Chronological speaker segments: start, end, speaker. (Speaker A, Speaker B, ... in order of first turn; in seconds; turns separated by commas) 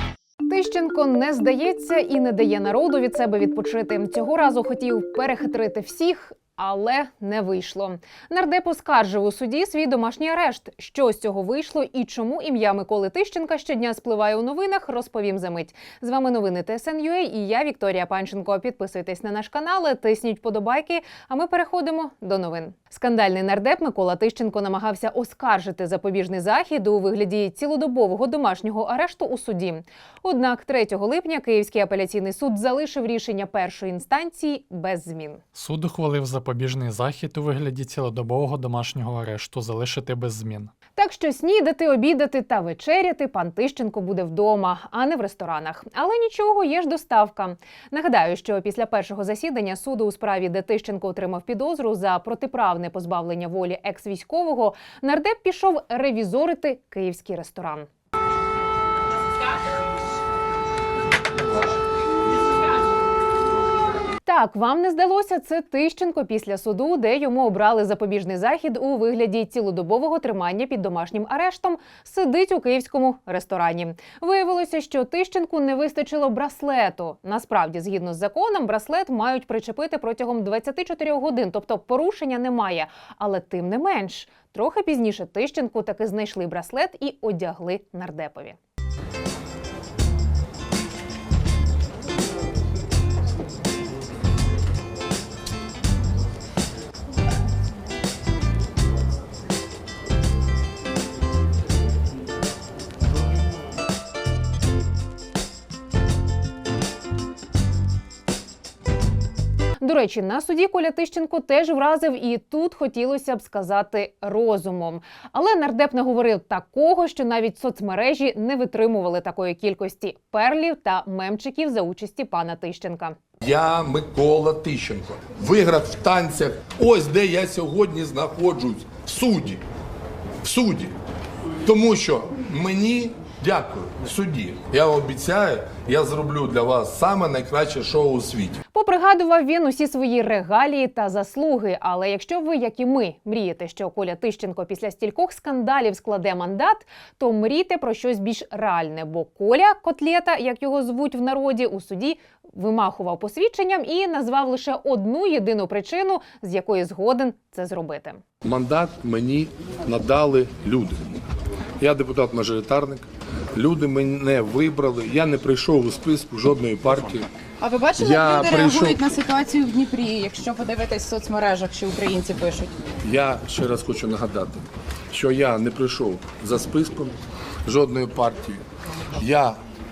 Speaker A: 0.5-35.4, Speaker B: 35.5-40.7, Speaker A: 41.0-57.9, Speaker A: 64.2-88.6, Speaker A: 109.8-123.1, Speaker C: 123.4-129.6, Speaker C: 130.4-130.9, Speaker C: 131.6-138.6, Speaker A: 138.7-158.2, Speaker C: 158.4-161.2, Speaker C: 161.8-167.3, Speaker D: 167.6-172.7, Speaker C: 168.0-169.0, Speaker C: 173.0-179.6